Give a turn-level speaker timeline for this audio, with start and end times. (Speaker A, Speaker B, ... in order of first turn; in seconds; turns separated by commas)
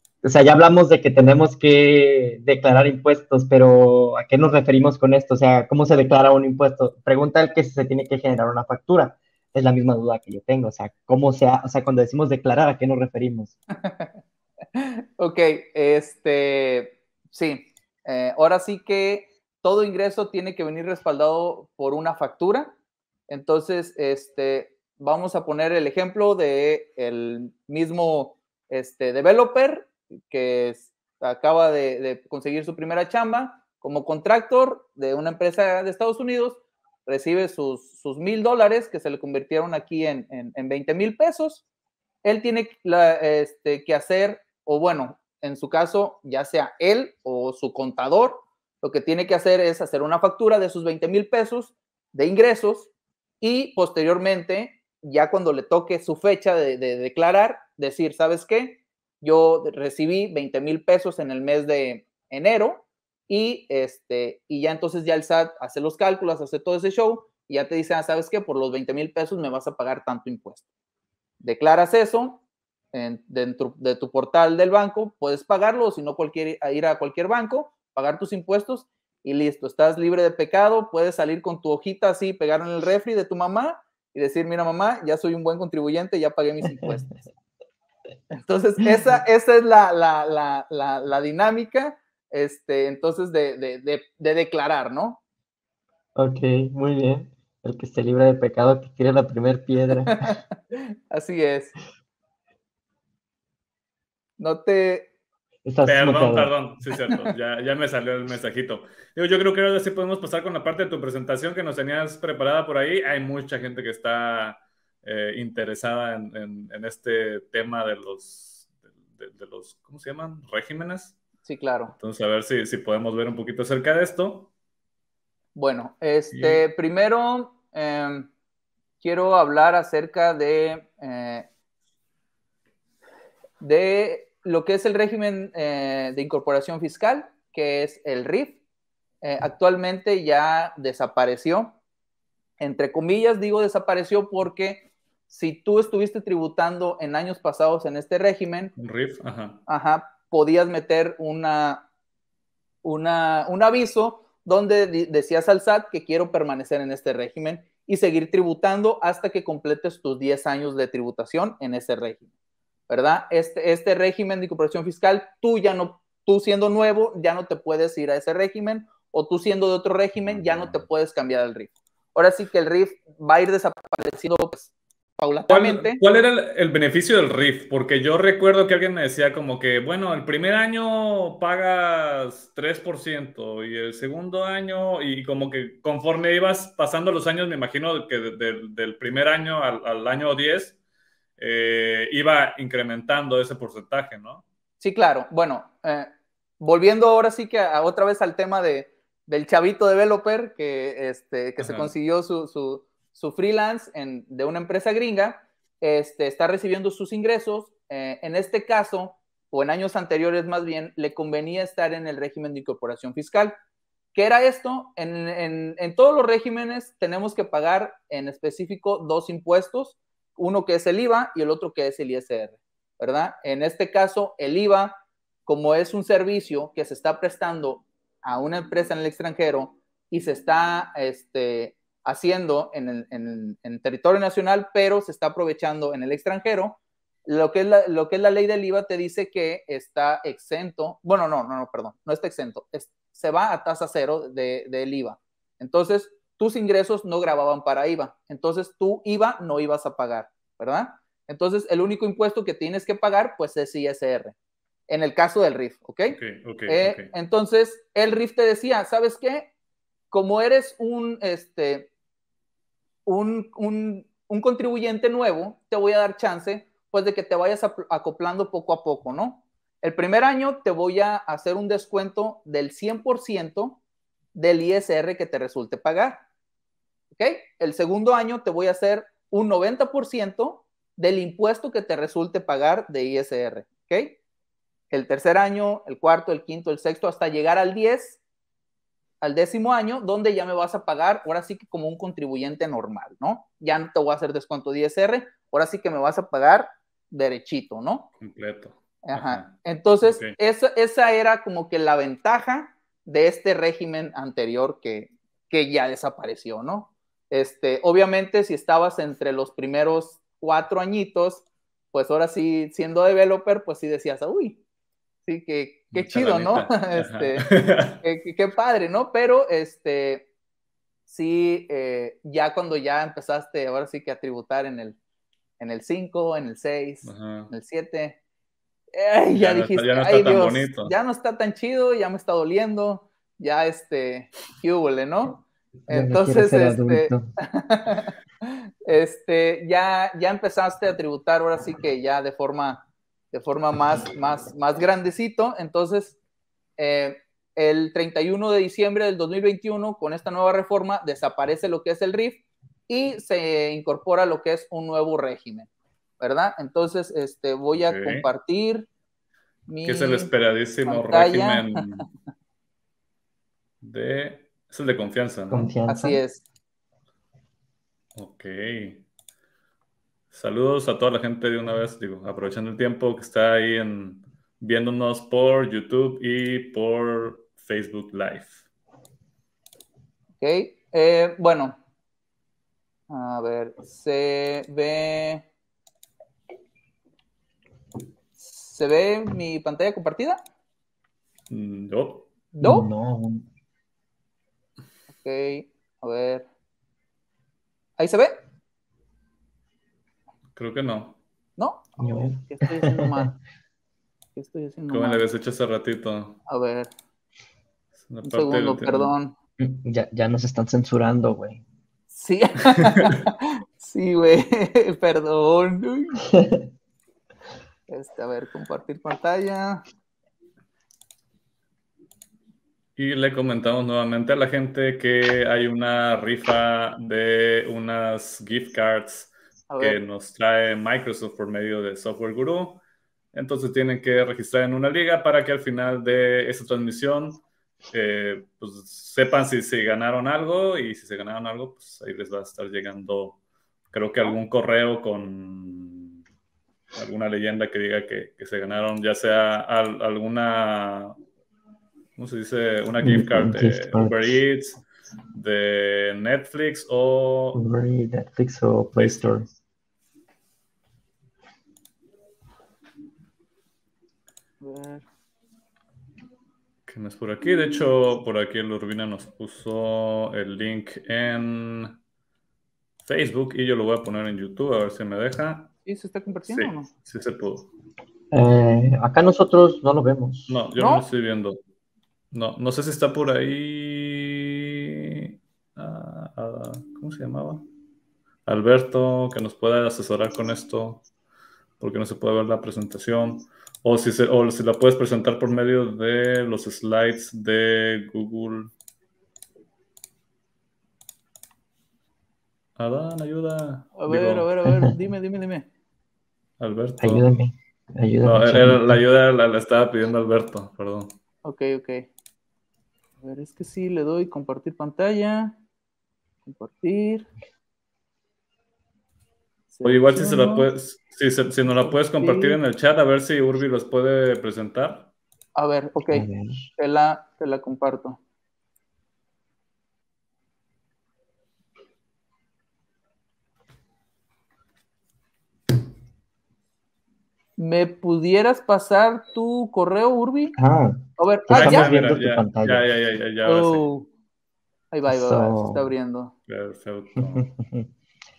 Speaker A: 0.2-13.6, Speaker B: 13.7-14.2, Speaker B: 14.8-22.7, Speaker B: 23.3-41.6, Speaker B: 42.2-52.9, Speaker B: 53.4-70.7, Speaker B: 71.4-72.4, Speaker B: 72.9-87.2, Speaker B: 88.3-95.2, Speaker A: 96.2-100.3, Speaker B: 100.1-101.8, Speaker B: 104.4-105.1, Speaker A: 105.7-106.5, Speaker C: 105.9-121.2, Speaker B: 121.5-122.0, Speaker C: 122.0-124.5, Speaker B: 125.5-128.3, Speaker C: 126.3-126.6, Speaker B: 129.0-131.5, Speaker B: 133.6-138.6, Speaker B: 139.2-141.7, Speaker B: 142.6-148.7, Speaker C: 148.8-149.6, Speaker B: 149.7-151.9, Speaker B: 152.8-162.2, Speaker B: 162.9-176.0, Speaker C: 170.2-170.8, Speaker C: 175.5-190.8, Speaker C: 191.4-194.4, Speaker B: 194.8-213.6, Speaker C: 201.6-201.9, Speaker B: 214.2-254.3, Speaker B: 254.9-259.5, Speaker C: 256.1-257.1, Speaker B: 260.1-261.9, Speaker B: 263.1-273.8, Speaker B: 274.4-276.2, Speaker B: 277.2-284.2, Speaker B: 284.9-288.2, Speaker B: 289.2-298.1, Speaker C: 298.2-300.4, Speaker B: 299.0-314.6, Speaker B: 315.3-320.3, Speaker C: 315.9-318.0, Speaker B: 321.1-325.0, Speaker B: 325.6-328.2, Speaker C: 327.1-327.5, Speaker B: 328.9-346.2, Speaker C: 329.4-330.9, Speaker A: 335.9-337.2, Speaker B: 346.8-355.7, Speaker B: 356.2-358.9, Speaker C: 357.8-358.3, Speaker B: 359.7-360.3, Speaker C: 359.8-362.1, Speaker B: 360.9-361.8, Speaker C: 363.8-365.7, Speaker A: 365.5-366.2, Speaker B: 365.9-366.4, Speaker C: 368.2-369.0, Speaker C: 370.3-378.6, Speaker B: 380.4-381.8, Speaker B: 383.1-385.4, Speaker B: 388.4-390.4, Speaker C: 391.5-392.3, Speaker B: 392.5-392.9, Speaker A: 392.6-393.5, Speaker B: 395.1-396.5, Speaker B: 398.0-398.4, Speaker C: 400.6-401.2, Speaker B: 401.6-403.4, Speaker A: 402.0-403.3, Speaker B: 404.4-405.2, Speaker C: 404.9-406.4, Speaker B: 406.5-406.9, Speaker C: 408.0-409.1, Speaker B: 408.2-409.4, Speaker A: 409.6-411.6, Speaker B: 412.1-416.2, Speaker B: 417.9-419.8, Speaker C: 423.0-432.8, Speaker B: 429.7-430.0, Speaker C: 433.3-443.4, Speaker C: 443.9-446.2, Speaker C: 447.0-451.2, Speaker C: 452.2-454.8, Speaker A: 453.0-454.4, Speaker C: 455.3-457.6, Speaker A: 457.5-459.5, Speaker B: 464.6-465.1, Speaker C: 466.9-471.9, Speaker C: 473.1-475.7, Speaker B: 475.9-476.9, Speaker C: 476.5-477.7, Speaker A: 478.3-480.6, Speaker C: 480.5-481.6, Speaker B: 480.8-481.1, Speaker C: 482.3-487.6, Speaker C: 488.5-491.0, Speaker C: 491.8-498.7, Speaker C: 502.8-504.5, Speaker B: 504.0-505.7, Speaker C: 506.6-507.2, Speaker A: 507.0-509.0, Speaker C: 508.2-511.1, Speaker B: 511.4-512.1, Speaker B: 513.2-515.5, Speaker B: 516.5-517.3, Speaker B: 519.7-520.7, Speaker C: 519.8-525.1, Speaker B: 521.8-522.6, Speaker B: 525.5-528.2, Speaker A: 526.1-526.7, Speaker B: 537.6-540.6, Speaker A: 540.6-542.8, Speaker B: 541.2-541.9, Speaker C: 541.5-543.9, Speaker B: 543.5-544.1, Speaker B: 544.9-546.3, Speaker A: 545.1-545.9, Speaker C: 546.5-547.5, Speaker A: 547.2-547.9